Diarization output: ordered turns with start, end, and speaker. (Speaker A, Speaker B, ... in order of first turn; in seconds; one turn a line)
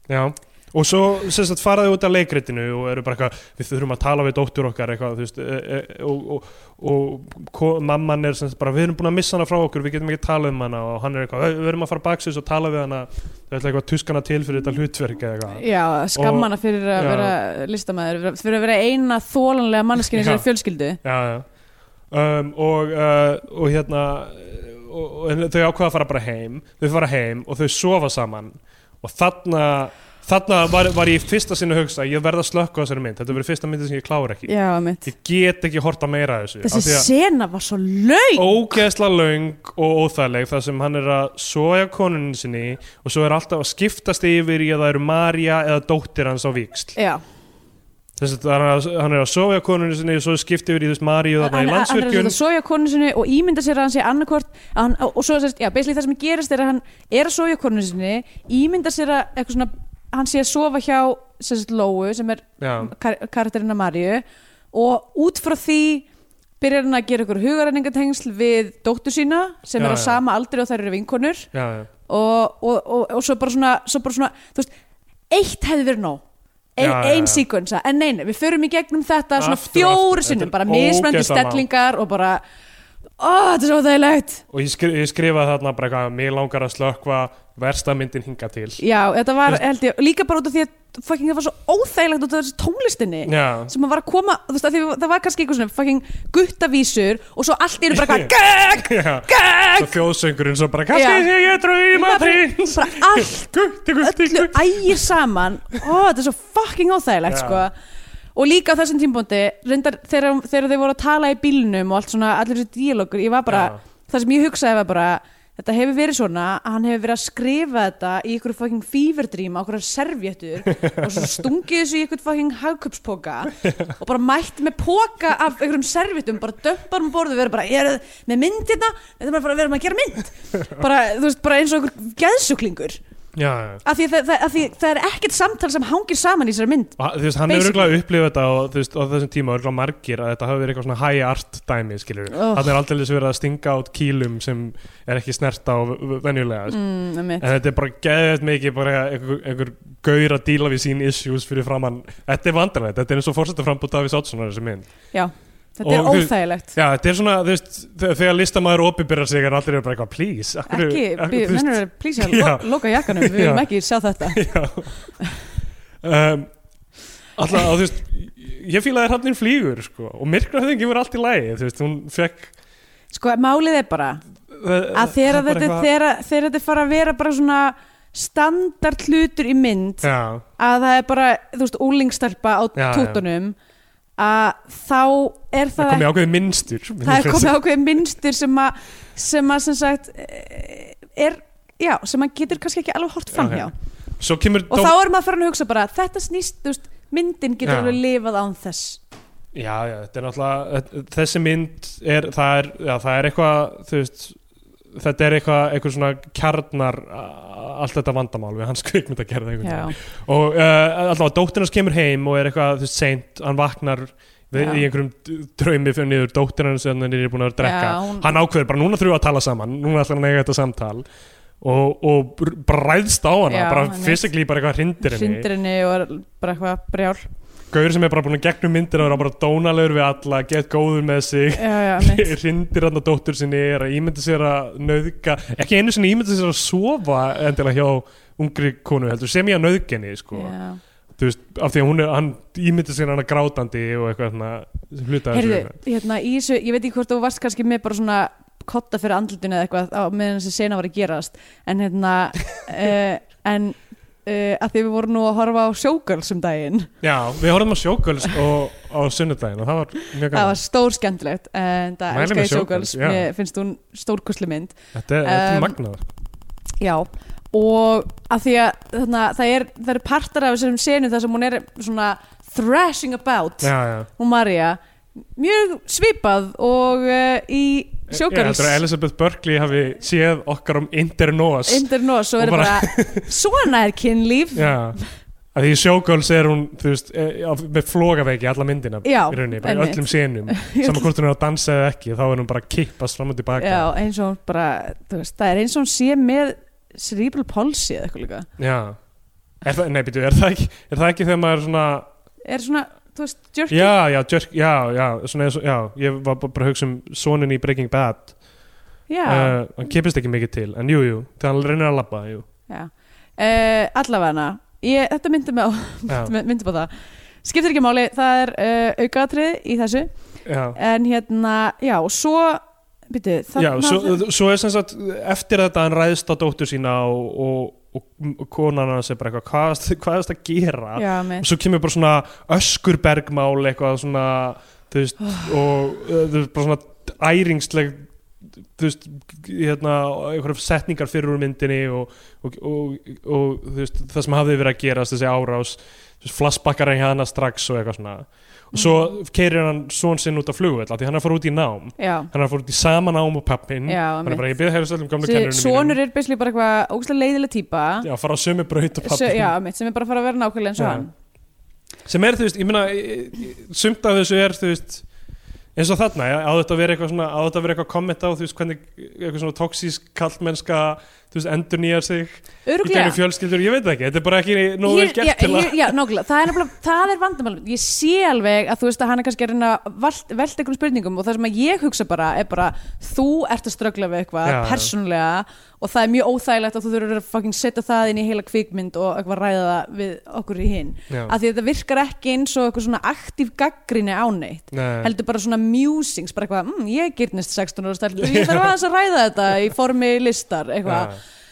Speaker A: 0.1-17.4
Speaker B: 15.6-21.0
Speaker A: 20.1-20.5
Speaker A: 21.0-21.5
Speaker A: 22.1-34.5
Speaker B: 34.5-35.1
Speaker A: 35.0-37.1
Speaker B: 36.6-38.8
Speaker A: 38.4-47.0
Speaker B: 47.0-47.2
Speaker A: 48.2-52.4
Speaker B: 51.4-66.1
Speaker A: 62.6-62.9
Speaker B: 66.6-71.5
Speaker A: 69.8-70.2
Speaker A: 71.5-71.9
Speaker B: 72.1-74.7
Speaker B: 75.3-76.2
Speaker B: 76.8-82.4
Speaker A: 76.8-77.5
Speaker A: 79.4-81.7
Speaker B: 83.2-84.4
Speaker A: 84.5-88.8
Speaker B: 88.8-100.0
Speaker A: 93.2-93.7
Speaker A: 97.9-105.0
Speaker B: 100.9-101.3
Speaker B: 101.9-107.7
Speaker A: 107.3-107.6
Speaker B: 108.3-133.0
Speaker A: 113.5-113.8
Speaker A: 120.8-121.4
Speaker A: 133.3-133.8
Speaker B: 133.8-138.0
Speaker A: 137.0-146.8
Speaker B: 142.3-142.8
Speaker B: 146.7-147.5
Speaker A: 147.4-154.9
Speaker B: 155.1-156.8
Speaker A: 155.8-163.7
Speaker B: 160.7-164.4
Speaker A: 164.2-164.9
Speaker A: 166.0-166.5
Speaker A: 167.4-172.5
Speaker B: 173.1-174.2
Speaker A: 174.5-175.9
Speaker B: 174.9-183.6
Speaker A: 180.0-180.4
Speaker A: 182.8-183.2
Speaker B: 184.2-186.1
Speaker A: 185.8-187.6
Speaker B: 187.0-193.7
Speaker A: 193.3-194.9
Speaker B: 194.7-199.0
Speaker A: 197.6-198.0
Speaker A: 199.5-204.4
Speaker A: 204.9-221.1
Speaker B: 209.6-209.9
Speaker B: 214.6-214.8
Speaker B: 217.6-218.3
Speaker A: 221.6-225.5
Speaker B: 223.5-224.3
Speaker B: 225.0-227.3
Speaker A: 227.7-240.5
Speaker B: 231.6-232.3
Speaker B: 240.3-240.8
Speaker A: 241.2-245.8
Speaker B: 245.3-256.9
Speaker A: 257.0-260.6
Speaker B: 260.3-265.8
Speaker A: 262.1-263.3
Speaker A: 264.9-266.1
Speaker B: 266.8-274.8
Speaker A: 273.6-274.1
Speaker B: 275.4-278.8
Speaker A: 278.1-281.9
Speaker B: 281.7-285.1
Speaker A: 282.4-283.3
Speaker A: 284.6-285.0
Speaker A: 285.5-293.9
Speaker B: 289.0-291.1
Speaker B: 293.6-298.5
Speaker A: 298.6-299.0
Speaker A: 299.6-302.1
Speaker B: 302.4-303.9
Speaker A: 303.7-308.3
Speaker B: 309.1-309.6
Speaker A: 309.3-312.5
Speaker B: 312.7-316.9
Speaker B: 317.4-320.1
Speaker A: 320.5-320.8
Speaker B: 320.7-324.2
Speaker A: 323.6-338.1
Speaker B: 330.9-331.5
Speaker A: 338.8-356.0
Speaker B: 352.0-352.3
Speaker B: 353.9-354.5
Speaker B: 355.2-358.1
Speaker A: 358.0-359.5
Speaker B: 359.0-361.1
Speaker A: 360.8-361.1
Speaker A: 362.1-365.1
Speaker A: 365.8-376.0
Speaker B: 372.7-373.2
Speaker B: 374.8-401.1
Speaker A: 384.4-384.9
Speaker A: 391.1-391.4
Speaker A: 394.7-395.1
Speaker A: 398.2-398.7
Speaker A: 400.9-401.2